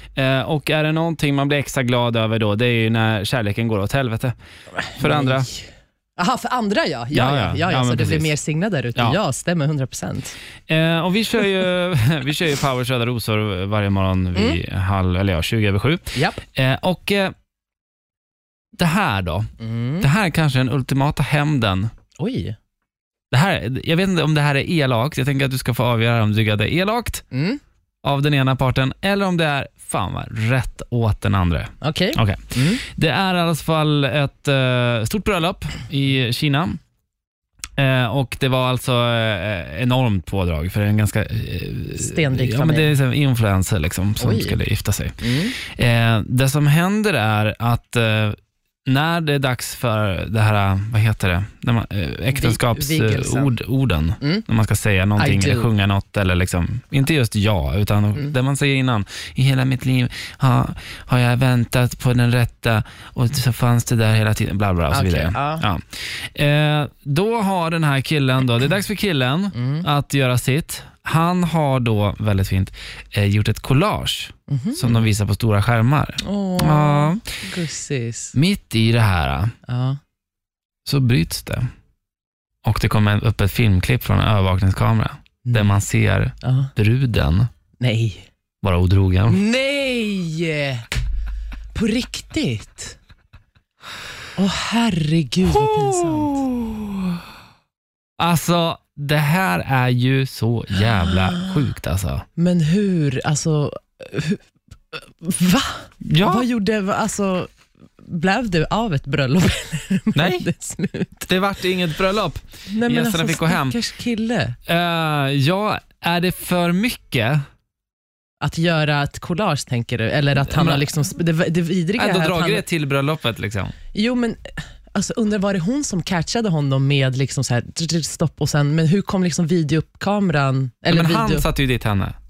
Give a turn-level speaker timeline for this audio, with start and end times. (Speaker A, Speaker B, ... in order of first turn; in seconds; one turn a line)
Speaker A: 0.1-4.3
Speaker B: 4.9-10.4
Speaker A: 4.9-5.5
Speaker A: 7.1-8.3
Speaker A: 10.7-17.3
Speaker B: 16.1-16.4
Speaker A: 18.8-21.9
Speaker B: 19.6-20.1
Speaker B: 22.2-22.6
Speaker A: 23.3-27.2
Speaker B: 27.3-27.6
Speaker A: 28.0-36.8
Speaker B: 31.8-32.8
Speaker A: 37.8-77.3
Speaker B: 41.9-42.9
Speaker B: 44.2-44.6
Speaker B: 45.2-45.5
Speaker B: 52.3-53.6
Speaker B: 54.2-54.4
Speaker B: 55.2-55.7
Speaker B: 64.9-65.6
Speaker B: 69.5-69.8
Speaker B: 74.5-75.0
Speaker B: 76.2-78.3
Speaker A: 78.3-79.5
Speaker B: 79.7-80.0
Speaker A: 80.8-81.7
Speaker A: 82.6-87.5
Speaker B: 86.4-86.7
Speaker B: 87.8-88.3
Speaker A: 88.6-89.4
Speaker B: 89.3-90.8
Speaker B: 91.7-93.0
Speaker B: 94.3-96.5
Speaker A: 95.6-97.0
Speaker A: 98.2-102.2
Speaker B: 101.0-101.6
Speaker B: 102.4-107.5
Speaker A: 106.0-106.5
Speaker B: 108.0-111.3
Speaker A: 110.1-110.5
Speaker A: 111.3-113.8
Speaker B: 112.7-114.6
Speaker A: 114.7-117.4
Speaker B: 118.4-122.6
Speaker A: 120.4-120.8
Speaker A: 122.0-123.7
Speaker B: 123.9-131.5
Speaker A: 130.9-132.1